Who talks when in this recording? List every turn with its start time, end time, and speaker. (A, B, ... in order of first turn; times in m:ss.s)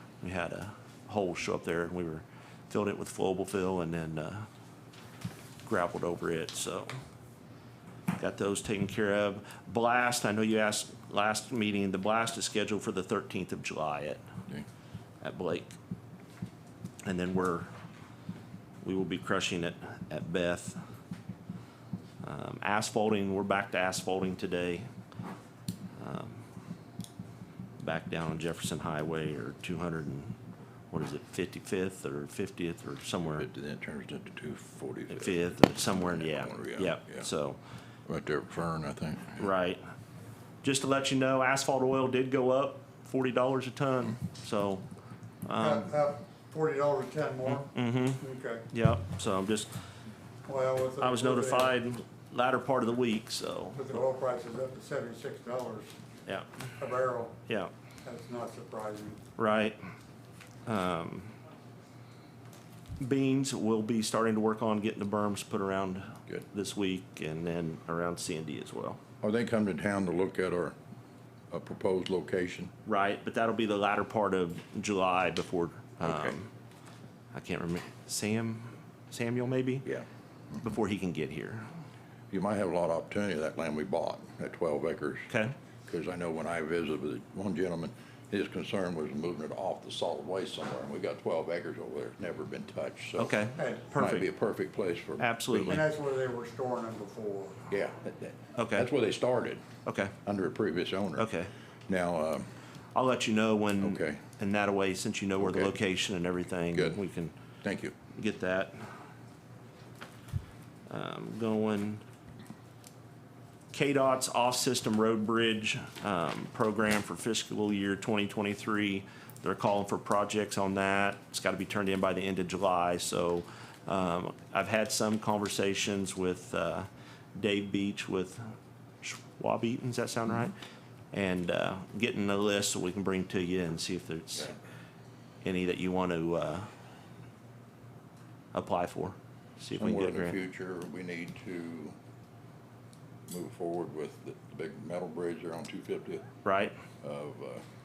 0:00.2-0:04.5 A
0:05.6-0:06.9 A
0:08.2-0:14.2 A
0:15.2-0:15.8 A
0:17.0-0:17.7 A
0:18.8-0:20.8 A
0:22.2-0:24.9 A
0:26.0-0:26.4 A
0:27.8-0:30.4 A
0:30.9-0:33.4 A
0:33.2-0:37.3 B
0:35.1-0:37.6 A
0:38.1-0:39.5 B
0:39.4-0:39.8 A
0:40.6-0:44.8 A
0:45.4-0:45.9 A
0:45.6-0:48.6 C
0:47.5-0:49.7 A
0:50.4-0:51.8 C
0:51.0-0:53.8 A
0:53.8-0:55.9 C
0:56.8-0:57.4 C
0:58.0-0:59.2 C
0:59.4-0:59.8 A
1:00.6-1:01.3 A
1:03.0-1:09.0 A
1:09.2-1:10.8 B
1:11.5-1:12.7 B
1:12.8-1:16.5 A
1:16.0-1:16.4 B
1:17.3-1:19.8 A
1:20.6-1:21.7 A
1:22.3-1:25.3 B
1:25.3-1:25.5 A
1:25.9-1:33.4 B
1:33.2-1:34.3 A
1:33.6-1:33.8 C
1:33.9-1:35.8 B
1:35.2-1:35.8 A
1:35.6-1:37.6 C
1:37.7-1:39.6 B
1:38.6-1:38.8 A
1:39.8-1:40.1 A
1:40.2-1:41.3 B
1:41.2-1:41.5 A
1:41.9-1:42.5 B
1:42.9-1:47.3 A
1:43.8-1:44.2 B
1:45.4-1:45.8 B
1:46.7-1:47.0 B
1:47.6-1:47.9 B
1:48.1-1:48.9 A
1:50.9-1:52.0 A
1:53.7-2:08.5 A
2:09.0-2:10.5 A
2:11.1-2:14.5 A
2:15.4-2:16.7 A
2:18.5-2:20.4 A
2:19.7-2:21.9 B
2:23.3-2:26.2 B
2:26.4-2:26.8 A
2:27.0-2:27.6 B